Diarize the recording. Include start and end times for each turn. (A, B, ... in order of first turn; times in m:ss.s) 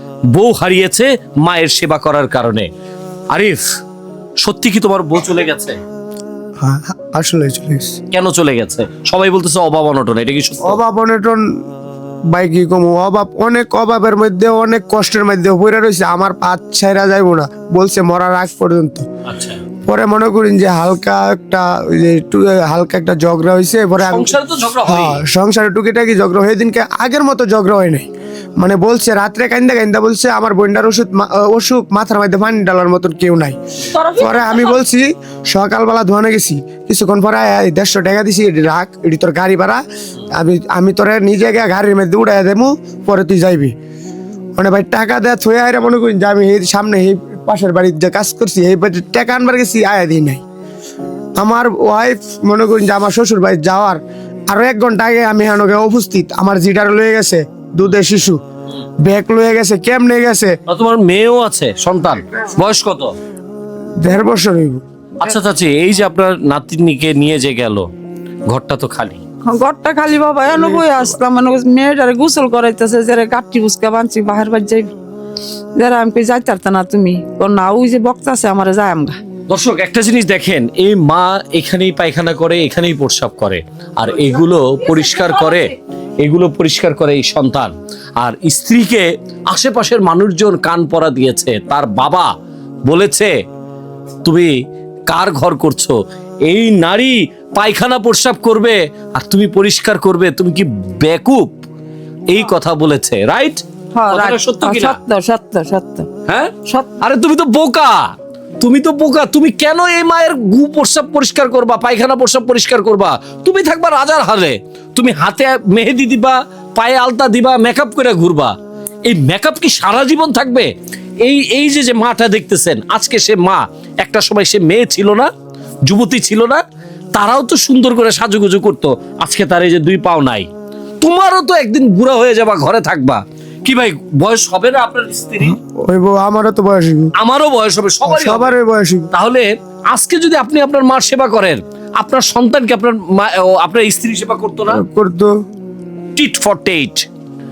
0:00.3-0:02.7 A
0:03.3-0:03.6 A
0:04.4-0:05.8 A
0:06.6-0:08.0 B
0:08.1-0:10.8 A
0:10.6-0:11.4 B
0:12.3-0:19.0 B
0:19.2-0:19.6 A
0:19.8-0:28.1 B
0:24.0-0:25.2 A
0:28.6-0:33.6 B
0:33.9-0:34.8 C
0:34.2-0:43.7 B
0:44.6-0:50.4 B
0:51.4-0:58.4 B
0:59.0-1:00.6 B
1:00.7-1:03.1 A
1:04.0-1:04.8 B
1:05.2-1:07.9 A
1:08.5-1:09.2 A
1:09.4-1:14.9 C
1:10.5-1:11.0 B
1:15.8-1:19.2 C
1:19.5-1:32.3 A
1:24.8-1:25.7 C
1:32.9-1:33.3 A
1:34.2-1:34.5 A
1:35.1-1:41.5 A
1:42.3-1:45.0 A
1:43.9-1:46.1 C
1:46.2-1:48.0 A
1:46.6-1:46.9 C
1:48.6-1:58.5 A
1:59.0-2:00.7 A
2:01.2-2:05.3 A
2:05.8-2:06.6 A
2:07.1-2:10.5 A
2:11.0-2:15.6 A
2:15.4-2:17.1 B
2:17.2-2:18.5 A
2:18.0-2:19.1 B
2:19.1-2:24.8 A
2:24.7-2:25.3 B
2:26.2-2:27.0 A